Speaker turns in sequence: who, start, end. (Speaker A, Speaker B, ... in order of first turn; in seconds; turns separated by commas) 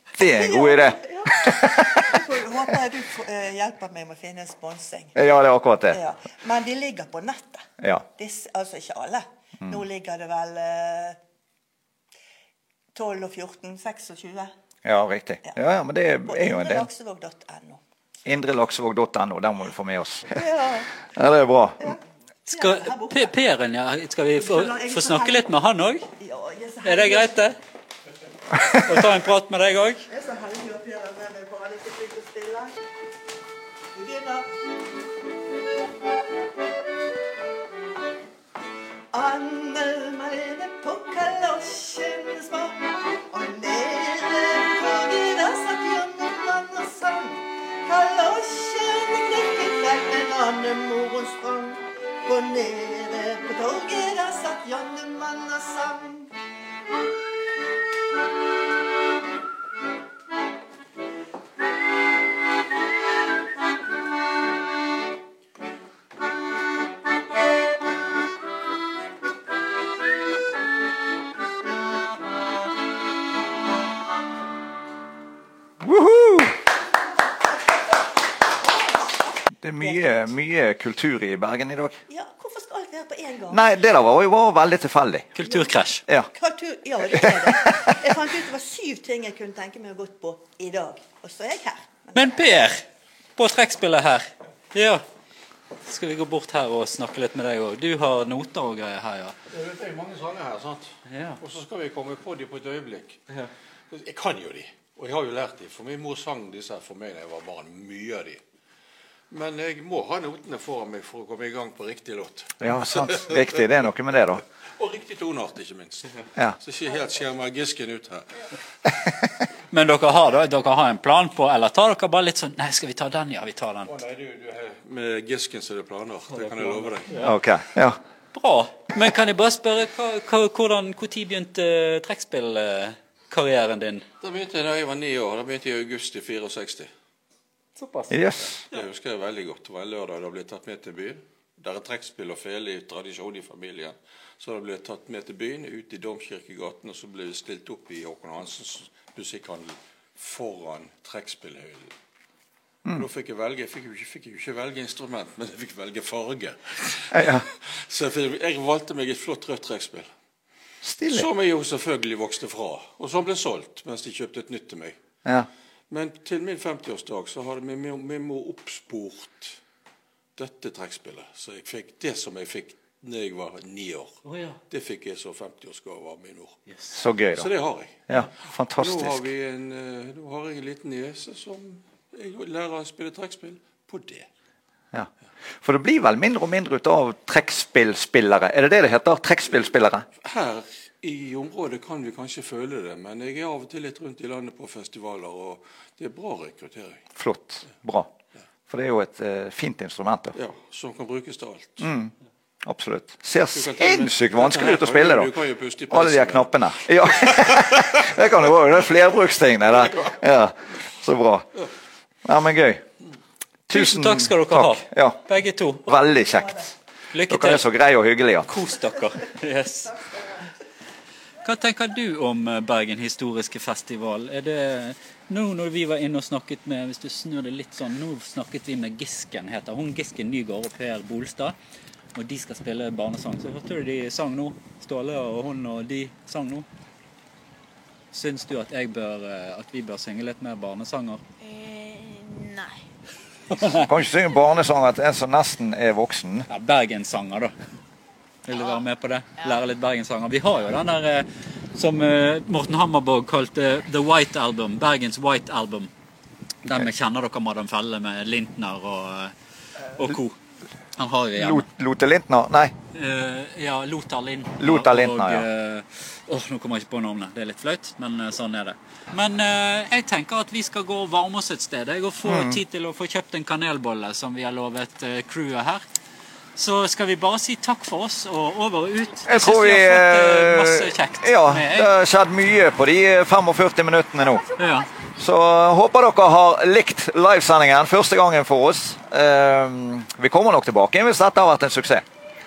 Speaker A: 0.1-2.4, Speaker B: 0.2-5.2, Speaker A: 5.2-6.0, Speaker B: 5.9-11.2, Speaker B: 12.9-14.5, Speaker A: 14.8-16.9, Speaker B: 16.2-17.8, Speaker A: 18.2-20.4, Speaker B: 20.3-20.9, Speaker A: 21.1-21.9, Speaker B: 21.8-23.3, Speaker C: 22.5-26.1, Speaker B: 24.4-25.5, Speaker B: 26.1-27.4, Speaker C: 26.8-27.6, Speaker C: 28.8-30.1, Speaker B: 30.1-32.8, Speaker B: 33.9-34.5, Speaker B: 39.1-56.3, Speaker A: 75.8-76.6, Speaker A: 79.6-82.0, Speaker B: 79.8-80.2, Speaker B: 82.1-83.6, Speaker A: 83.5-85.3, Speaker C: 85.3-86.0, Speaker B: 85.4-85.7, Speaker B: 86.3-92.4, Speaker A: 87.1-88.0, Speaker C: 92.1-92.8, Speaker C: 93.4-95.0, Speaker C: 95.8-99.3, Speaker D: 99.5-108.4, Speaker C: 101.1-101.4, Speaker D: 109.3-113.6, Speaker A: 112.6-114.4, Speaker D: 114.7-118.4, Speaker C: 119.7-124.0, Speaker D: 123.9-127.3, Speaker C: 126.4-127.3, Speaker A: 127.2-128.0, Speaker C: 128.3-134.1, Speaker D: 134.2-136.9, Speaker C: 137.8-138.1, Speaker A: 138.1-138.6, Speaker D: 138.7-151.9, Speaker D: 152.9-160.1, Speaker A: 157.1-157.5, Speaker A: 160.8-161.3, Speaker D: 161.1-165.0, Speaker D: 165.9-169.6, Speaker D: 170.3-176.6, Speaker C: 174.2-174.6, Speaker A: 176.9-177.5, Speaker D: 177.3-184.3, Speaker A: 178.1-179.3, Speaker A: 185.6-190.0, Speaker D: 190.2-197.0, Speaker A: 197.2-198.1, Speaker A: 198.7-200.3, Speaker D: 200.3-201.9, Speaker A: 201.8-202.1, Speaker A: 202.6-205.3, Speaker D: 203.5-208.1, Speaker A: 205.9-211.5, Speaker A: 212.2-212.8, Speaker A: 213.7-215.2, Speaker C: 213.7-215.8, Speaker A: 215.8-216.7, Speaker C: 217.1-217.7, Speaker A: 217.3-218.5, Speaker C: 218.4-219.9, Speaker C: 221.4-231.6, Speaker C: 232.1-236.7, Speaker C: 238.1-241.2, Speaker E: 241.4-242.8, Speaker C: 243.6-243.8, Speaker A: 243.7-246.5, Speaker C: 246.5-247.5, Speaker C: 248.4-255.9, Speaker E: 248.5-248.8, Speaker E: 249.4-249.6, Speaker C: 256.6-259.3, Speaker C: 259.9-260.4, Speaker C: 261.0-261.6, Speaker A: 261.4-262.7, Speaker C: 262.9-275.9, Speaker A: 264.6-265.5, Speaker A: 272.2-272.6, Speaker C: 276.6-281.9, Speaker A: 279.3-284.4, Speaker C: 284.6-284.9, Speaker A: 285.2-292.1